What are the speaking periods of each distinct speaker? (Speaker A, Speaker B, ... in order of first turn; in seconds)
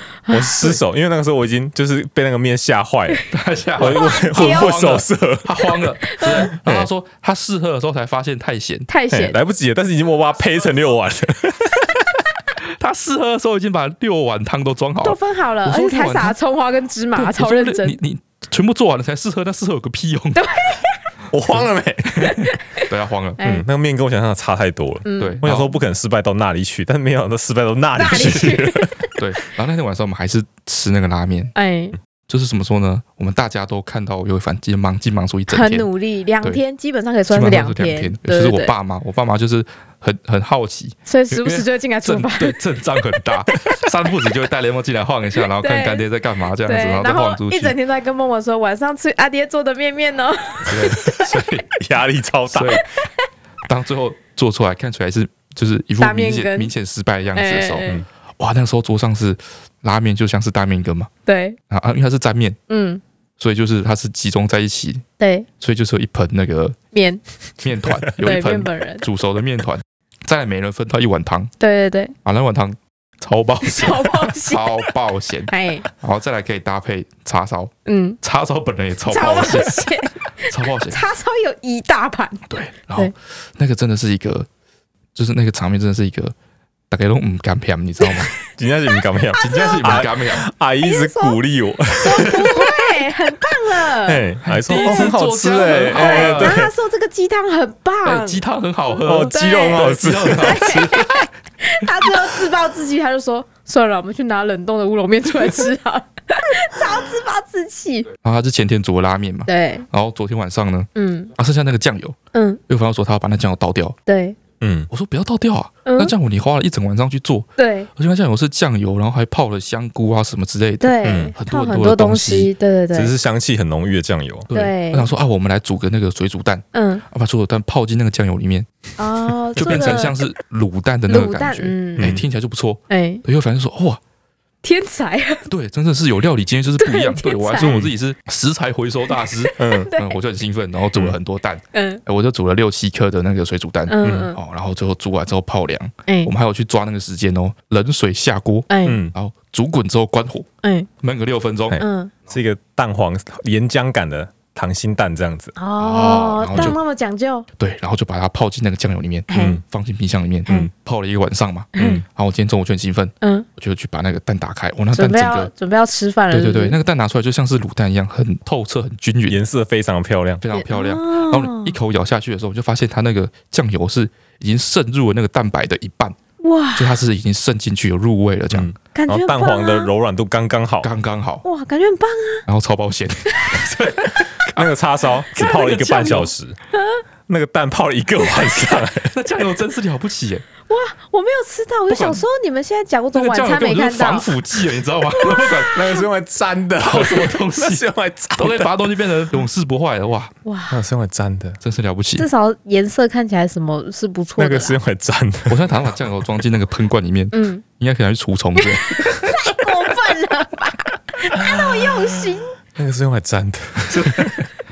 Speaker A: 0.3-0.8, 3.8-4.8, 6.0-6.5, 8.9-9.4, 15.0-18.0, 20.4-21.0, 22.2-22.9, 23.4-23.7, 25.1-25.4, 28.0-29.1, 31.6-32.0, 35.5-38.7, 41.1-42.6, 45.6-46.0, 46.6-51.4, 52.8-53.1, 56.0-56.7, 57.4-58.0, 61.3-61.6, 62.7-63.0, 65.2-65.5, 66.9-67.2, 68.2-69.1, 71.6-72.1, 73.6-74.9, 75.5-75.9, 77.9-78.2, 79.1-83.1, 88.0-88.3, 89.3-90.1, 90.8-91.4, 92.0-95.1, 95.8-98.4, 99.2-108.1, 109.5-109.9, 111.0-111.3, 112.3-112.6, 114.1-114.4, 115.8-116.1, 117.6-117.9, 120.8-123.1, 124.5-125.1, 126.7-127.0, 129.0-130.2, 131.1-132.1, 132.9-133.2, 134.6-135.5, 136.8-137.8, 139.4-140.2, 141.7-142.0, 143.9-144.4, 146.1-146.3, 148.7-149.0, 150.6-150.9, 151.8-152.1, 155.6-157.5, 159.3-159.6, 161.8-162.0, 163.2-163.5, 164.9-166.8, 170.5-171.8, 176.4-177.0, 178.9-179.9, 181.4-182.5, 183.3-183.6, 186.7-187.0, 190.7-194.3, 195.2-195.7, 200.4-200.8, 202.2-204.8, 207.3-207.6, 208.6-212.6
Speaker B: 0.3-3.3, 3.8-5.7, 6.3-6.9, 9.1-12.0, 21.3-22.2, 23.4-28.9, 51.8-52.8, 88.4-92.8, 93.9-96.7, 99.0-100.8, 114.6-114.9, 121.0-121.3, 122.9-124.5, 129.6-129.8, 132.0-132.2, 137.6-137.9, 139.6-139.9, 144.0-144.3, 148.8-149.2, 151.7-155.6, 156.5-156.8, 159.3-159.6, 161.8-162.1, 169.3-170.4, 178.5-180.9, 184.6-186.6, 187.3-189.1, 195.7-198.9, 200.7-201.6, 204.4-205.8, 211.3-214.5
Speaker C: 3.3-8.9, 12.8-16.4, 17.2-20.5, 21.5-23.4, 25.2-25.8, 28.1-28.5, 29.2-31.5, 32.3-35.9, 37.3-47.8, 50.7-51.7, 52.5-52.8, 53.7-61.1, 61.7-62.6, 63.4-65.0, 65.6-66.8, 67.6-71.5, 72.2-79.9, 80.4-81.0, 82.5-84.5, 85.2-86.3, 86.9-88.3, 89.4-90.5, 94.5-96.6, 98.0-101.3, 108.2-112.2, 112.7-114.0, 114.9-122.5, 124.5-128.7, 129.6-134.0, 135.5-150.5, 151.0-151.8, 155.8-156.8, 157.6-165.5, 166.3-169.4, 170.4-176.2, 176.8-178.7, 180.8-181.4, 182.5-184.7, 185.4-186.3, 189.0-190.5, 191.9-192.2, 193.1-196.1, 196.8-200.3, 201.6-202.3, 205.5-209.6, 213.9-214.3